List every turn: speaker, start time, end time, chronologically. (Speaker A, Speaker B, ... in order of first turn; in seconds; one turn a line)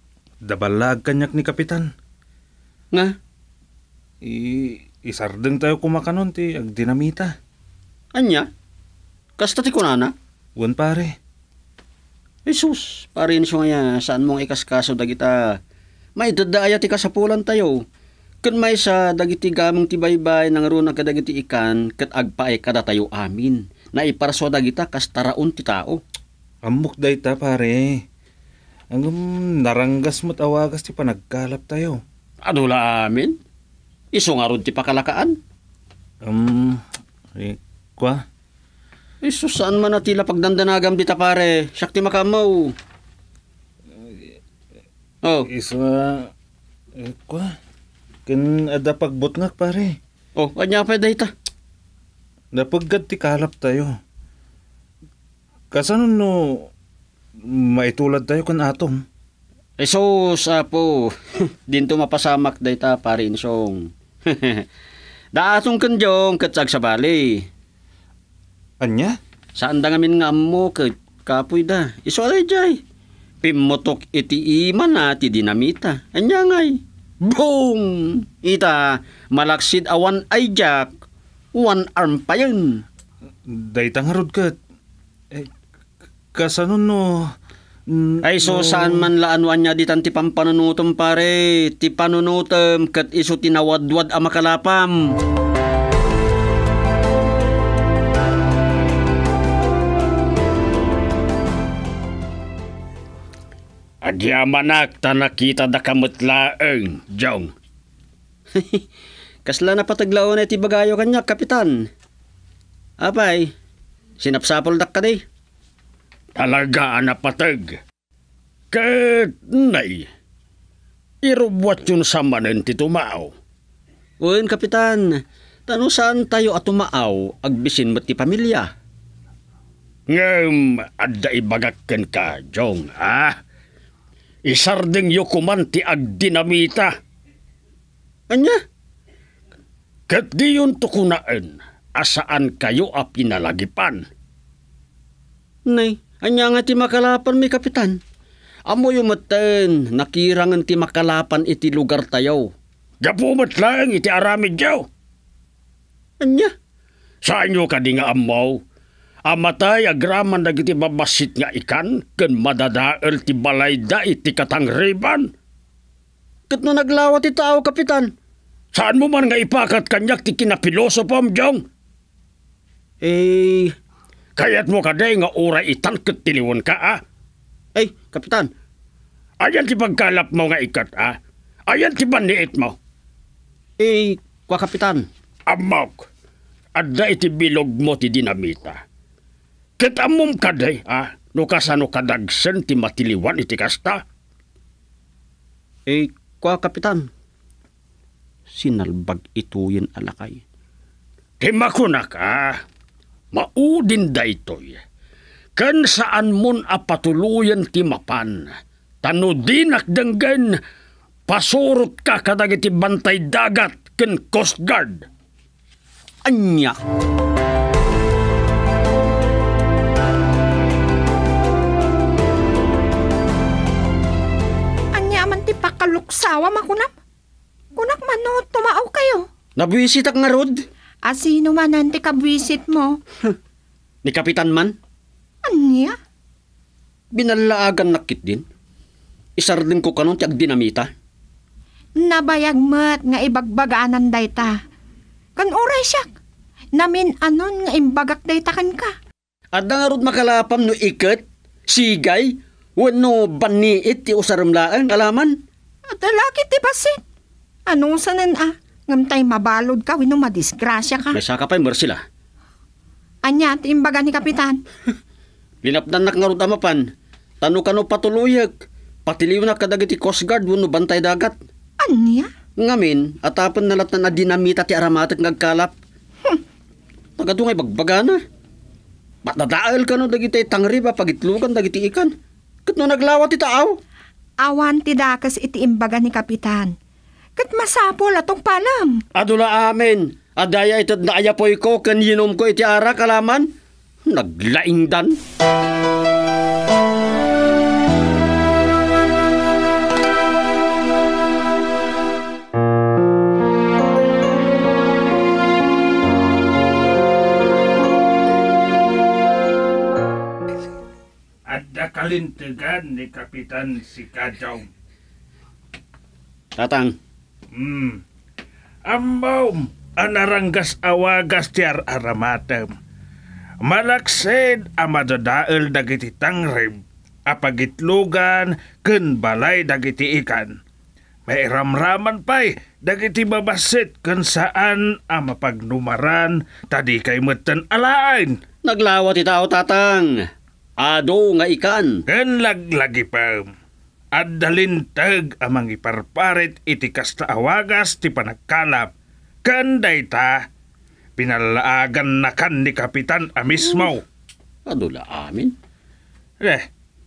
Speaker A: 0.4-1.9
Speaker A: 4.2-7.3
Speaker B: 8.2-8.5
Speaker B: 9.4-10.1
Speaker A: 10.6-11.2
Speaker B: 12.5-15.6
Speaker B: 16.2-17.8
Speaker B: 18.4-26.0
Speaker A: 26.6-28.0
Speaker A: 28.9-32.0
Speaker B: 32.4-33.4
Speaker B: 34.1-35.4
Speaker A: 36.2-36.8
Speaker A: 37.4-38.2
Speaker B: 39.2-42.8
Speaker B: 45.2-45.5
Speaker A: 45.5-46.3
Speaker A: 47.0-47.5
Speaker A: 48.3-50.0
Speaker B: 50.4-51.3
Speaker A: 52.5-54.0
Speaker A: 55.7-56.7
Speaker A: 57.5-59.0
Speaker B: 59.8-64.7
Speaker B: 65.3-67.5
Speaker A: 68.8-69.2
Speaker B: 69.5-72.8
Speaker B: 73.4-80.9
Speaker B: 81.5-82.8
Speaker A: 83.5-84.5
Speaker A: 86.3-87.3
Speaker A: 87.9-89.1
Speaker B: 88.2-95.0
Speaker B: 104.0-107.5
Speaker B: 108.5-108.9
Speaker B: 109.5-111.8
Speaker B: 113.0-113.5
Speaker B: 114.2-115.2
Speaker B: 116.4-117.8
Speaker B: 118.7-120.1
Speaker B: 121.2-123.3
Speaker B: 124.2-128.7
Speaker B: 130.1-133.4
Speaker B: 134.5-136.9
Speaker B: 138.3-138.6
Speaker B: 140.1-144.1
Speaker B: 145.7-148.0
Speaker B: 148.7-154.9
Speaker B: 156.2-156.5
Speaker B: 157.2-158.6
Speaker B: 159.3-165.3
Speaker B: 166.5-168.1
Speaker B: 168.7-171.7
Speaker B: 173.0-173.7
Speaker B: 174.4-177.0
Speaker B: 177.8-178.5
Speaker B: 179.4-182.8
Speaker B: 183.8-186.1
Speaker B: 186.8-188.8
Speaker B: 189.8-194.0
Speaker B: 195.9-197.1
Speaker B: 198.5-200.4
Speaker B: 201.4-202.6
Speaker B: 203.3-204.8
Speaker B: 205.6-208.5
Speaker B: 209.0-210.6
Speaker B: 211.3-215.1
Speaker B: 216.3-216.8
Speaker C: 224.9-226.9
Speaker C: 227.8-229.3
Speaker B: 229.6-230.6
Speaker C: 231.1-233.0
Speaker B: 234.1-234.8
Speaker C: 235.5-236.0
Speaker B: 237.1-238.4
Speaker B: 239.4-240.9
Speaker C: 242.0-244.6
Speaker C: 245.4-246.1
Speaker C: 246.8-248.9
Speaker B: 249.6-255.4
Speaker C: 255.9-257.0
Speaker C: 257.7-261.2
Speaker B: 261.1-262.0
Speaker C: 263.2-264.6
Speaker B: 265.6-266.9
Speaker B: 267.4-268.5
Speaker B: 269.1-271.4
Speaker C: 271.8-272.3
Speaker B: 272.6-275.8
Speaker B: 277.2-278.2
Speaker B: 279.2-282.1
Speaker B: 282.7-283.8
Speaker C: 284.4-286.7
Speaker C: 287.4-289.0
Speaker B: 289.1-293.5
Speaker B: 294.1-295.2
Speaker D: 311.5-314.7
Speaker B: 316.6-317.0
Speaker D: 317.6-318.0
Speaker D: 318.9-322.7
Speaker D: 323.6-330.6
Speaker D: 331.3-338.4
Speaker B: 338.6-340.3
Speaker B: 340.8-342.0
Speaker D: 342.1-343.5
Speaker D: 344.1-348.9
Speaker D: 349.4-350.4
Speaker D: 351.2-354.0
Speaker B: 354.7-355.6